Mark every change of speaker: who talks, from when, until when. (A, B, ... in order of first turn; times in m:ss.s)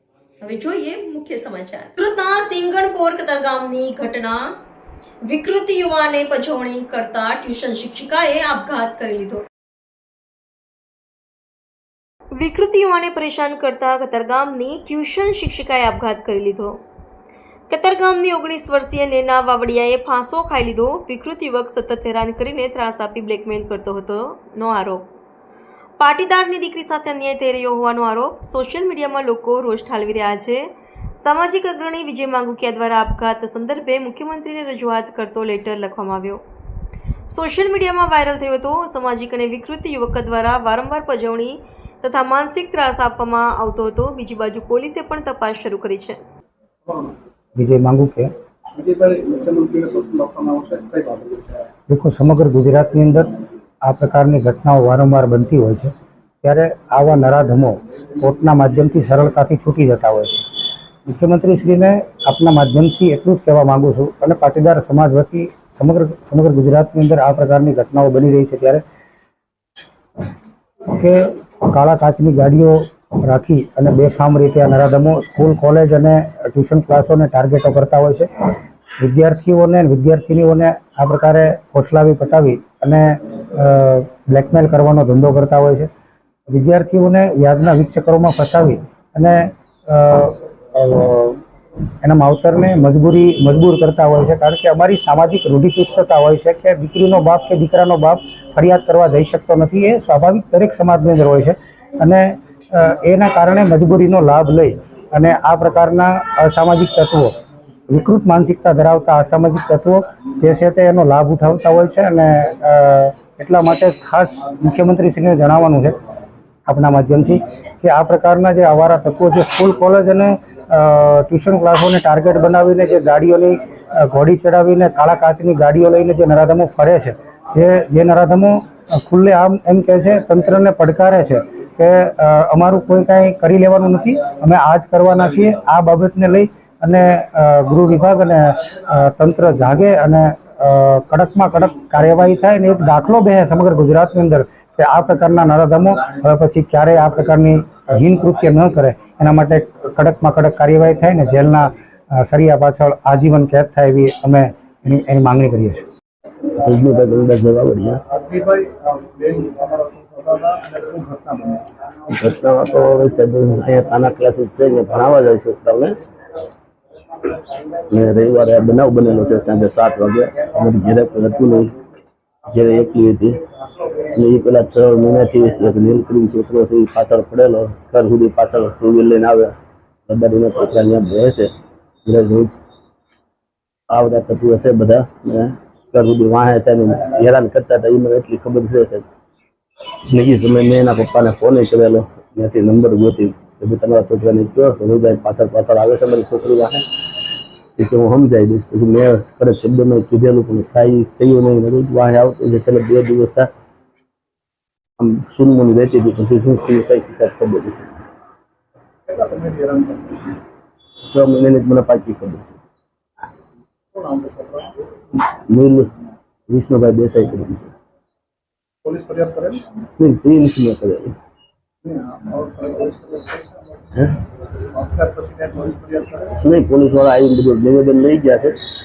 0:00.4-0:04.5 A
0:05.2-0:09.4 A
0:12.3-0:16.8 A
0:17.7-0:25.0 A
0:26.0-0:36.4 A
0:37.3-0:46.2 A
0:46.8-0:47.1 B
0:47.6-0:48.3 C
0:48.8-0:51.5 B
0:51.9-0:53.3 C
0:53.8-0:55.9 C
0:56.4-1:00.4 C
1:01.1-1:08.8 C
1:10.9-1:18.3 C
1:19.0-1:25.9 C
1:26.5-1:31.4 C
1:32.0-1:47.3 C
1:47.9-1:55.9 C
1:56.7-2:35.8 C
2:36.5-2:38.0 D
2:38.1-2:41.6 B
2:42.1-2:46.0 D
2:47.9-2:51.7 D
2:52.5-2:53.4 D
2:54.0-2:59.5 D
3:00.1-3:01.5 D
3:02.0-3:02.6 D
3:03.9-3:09.0 D
3:09.9-3:16.8 D
3:17.8-3:23.5 D
3:25.0-3:27.9 D
3:29.1-3:30.3 B
3:31.1-3:32.6 D
3:33.9-3:34.7 B
3:35.1-3:35.9 D
3:36.5-3:37.7 D
3:38.8-3:39.6 B
3:40.0-3:41.1 D
3:41.8-3:43.6 B
3:44.7-3:46.4 B
3:46.4-3:48.6 D